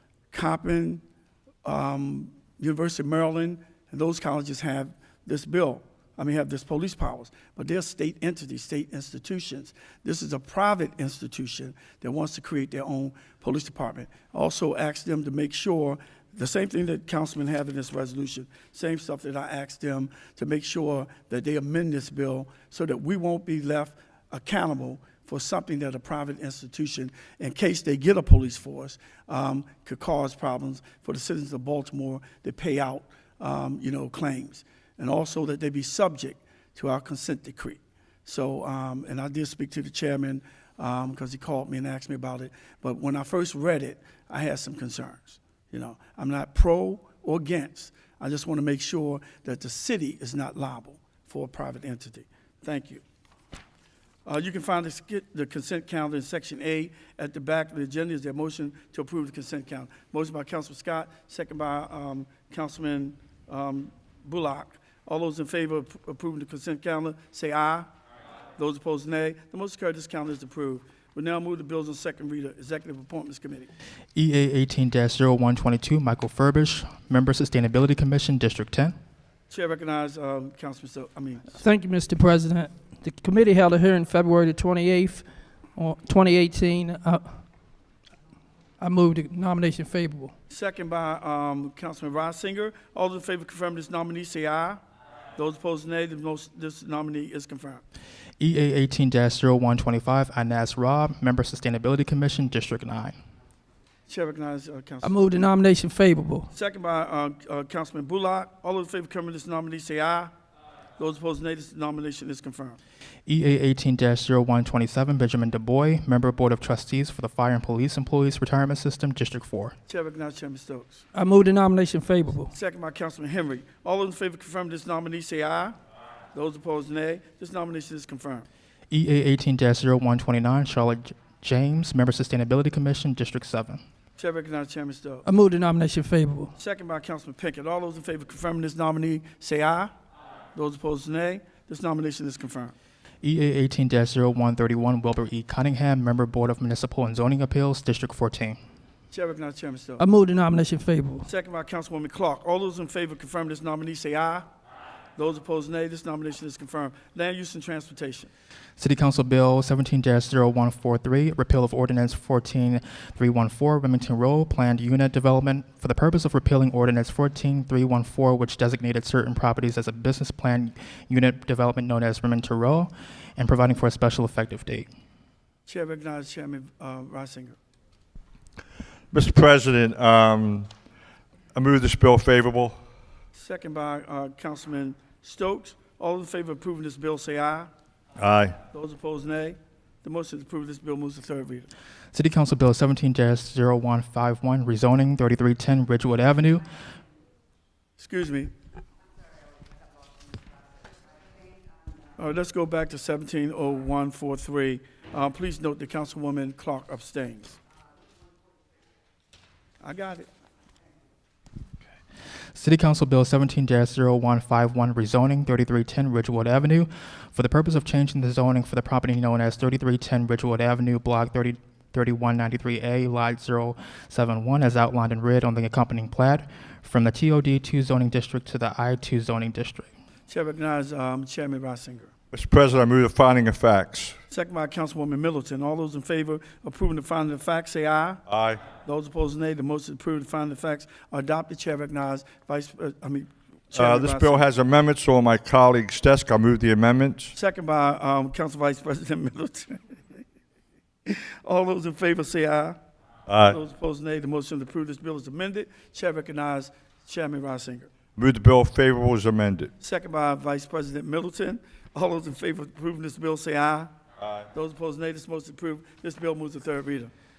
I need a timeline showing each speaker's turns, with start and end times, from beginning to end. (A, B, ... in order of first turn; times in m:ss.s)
0:00.3-0:01.0 A
0:01.6-0:53.0 A
0:54.2-1:07.9 A
1:08.6-1:13.7 A
1:14.1-1:18.9 B
1:19.5-1:21.6 A
1:21.5-1:27.4 C
1:28.8-1:30.3 C
1:30.5-1:34.8 A
1:35.4-1:37.8 A
1:38.4-1:43.1 B
1:44.1-1:45.1 A
1:45.0-1:46.5 C
1:46.5-1:50.3 A
1:51.0-1:52.8 A
1:53.3-1:59.7 B
1:59.9-2:01.0 A
2:01.1-2:02.5 C
2:02.5-2:05.8 A
2:06.3-2:08.4 A
2:08.9-2:13.8 B
2:14.2-2:15.2 A
2:15.2-2:16.5 C
2:16.6-2:19.9 A
2:20.5-2:22.7 A
2:23.2-2:28.6 B
2:29.1-2:30.0 A
2:30.0-2:31.3 C
2:31.2-2:34.4 A
2:35.2-2:38.3 A
2:38.8-2:54.9 B
2:55.7-2:57.6 A
2:59.1-3:00.7 D
3:01.5-3:02.8 D
3:03.3-3:07.7 A
3:08.2-3:08.5 D
3:08.7-3:11.7 A
3:12.1-3:16.6 B
3:18.0-3:18.5 A
3:22.2-3:27.6 A
3:29.8-3:30.3 A
3:32.5-3:49.9 B
3:50.3-3:52.1 A
3:52.3-3:54.1 D
3:54.3-3:58.2 A
3:58.3-3:58.6 D
3:58.8-4:04.4 A
4:03.7-4:07.3 D
4:07.3-4:09.8 A
4:11.0-4:12.8 A
4:13.3-4:13.6 D
4:13.4-4:17.9 A
4:18.2-4:19.7 D
4:19.8-4:23.9 A
4:24.5-4:27.1 A